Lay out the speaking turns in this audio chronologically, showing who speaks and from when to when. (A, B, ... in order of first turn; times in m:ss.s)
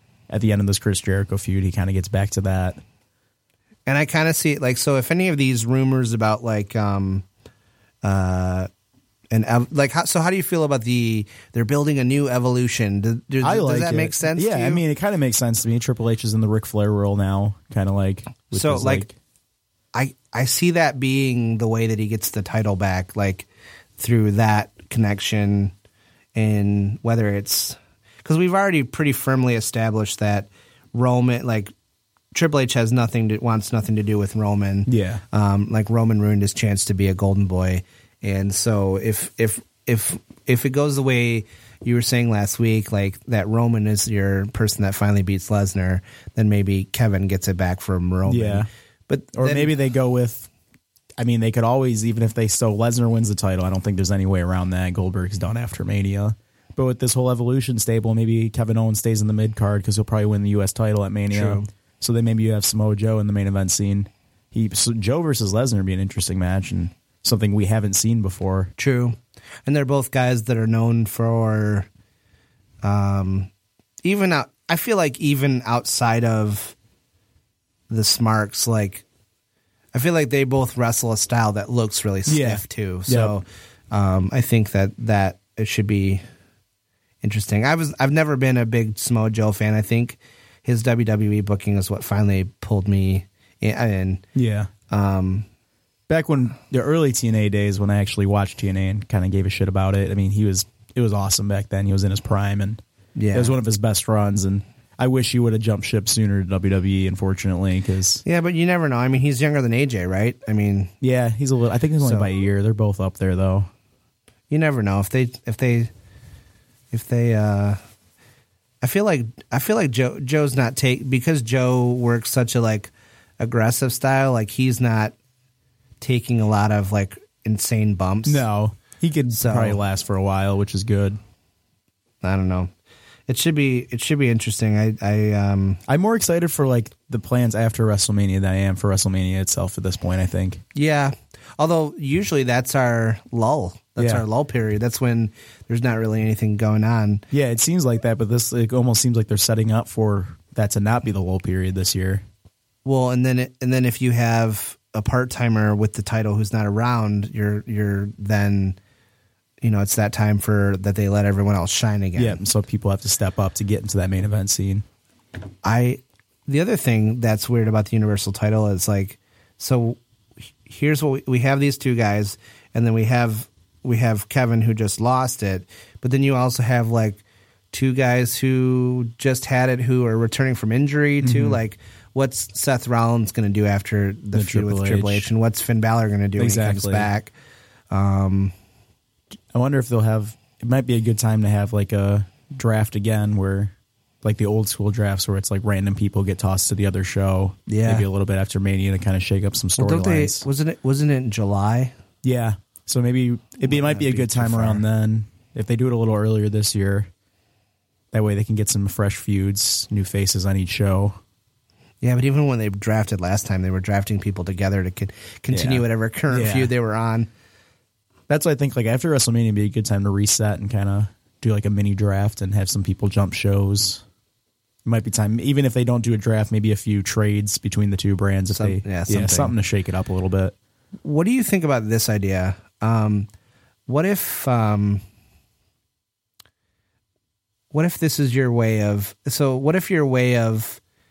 0:00.3-0:02.8 A
0:03.9-0:07.2 B
0:08.0-0:08.7 B
0:09.3-0:14.8 B
0:13.4-0:19.1 A
0:18.5-0:19.0 B
0:19.9-0:23.5 B
0:24.0-0:25.7 B
0:26.3-0:31.7 B
0:32.3-0:49.7 B
0:34.9-0:35.2 A
0:48.2-0:48.7 A
0:49.3-0:50.5 A
0:51.2-1:08.7 A
1:01.3-1:01.7 B
1:08.8-1:11.9 B
1:12.8-1:13.5 B
1:14.0-1:16.7 B
1:17.9-1:19.0 B
1:19.9-1:26.2 B
1:22.2-1:23.4 A
1:27.2-1:34.2 B
1:34.3-1:34.7 A
1:34.9-1:35.4 B
1:36.1-1:42.8 A
1:43.2-1:43.6 B
1:43.3-1:48.2 A
1:48.2-1:50.9 B
1:51.0-1:53.7 A
1:52.0-1:52.3 B
1:54.5-1:55.9 B
1:56.9-1:57.8 B
1:58.8-2:05.1 B
2:06.0-2:08.4 B
2:08.2-2:11.2 A
2:09.3-2:09.8 B
2:12.2-2:12.7 B
2:13.3-2:15.8 B
2:15.9-2:20.6 A
2:20.7-2:27.2 B
2:24.0-2:24.2 A
2:27.3-2:32.2 A
2:32.8-2:38.8 B
2:39.6-2:42.4 B
2:42.2-2:44.8 A
2:45.6-2:50.0 B
2:50.6-3:07.3 B
3:01.2-3:01.6 A
3:04.3-3:05.2 A
3:06.4-3:07.1 A
3:07.9-3:08.5 B
3:09.5-3:13.7 A
3:14.2-3:20.4 A
3:17.7-3:18.1 B
3:19.8-3:21.9 B
3:22.2-3:27.1 A
3:23.6-3:24.8 B
3:28.1-3:31.2 A
3:32.0-3:37.3 B
3:35.5-3:36.7 A
3:38.3-3:44.0 A
3:44.8-3:50.5 A
3:48.5-3:49.5 B
3:51.0-3:53.3 B
3:53.9-3:55.0 B
3:57.7-4:00.8 B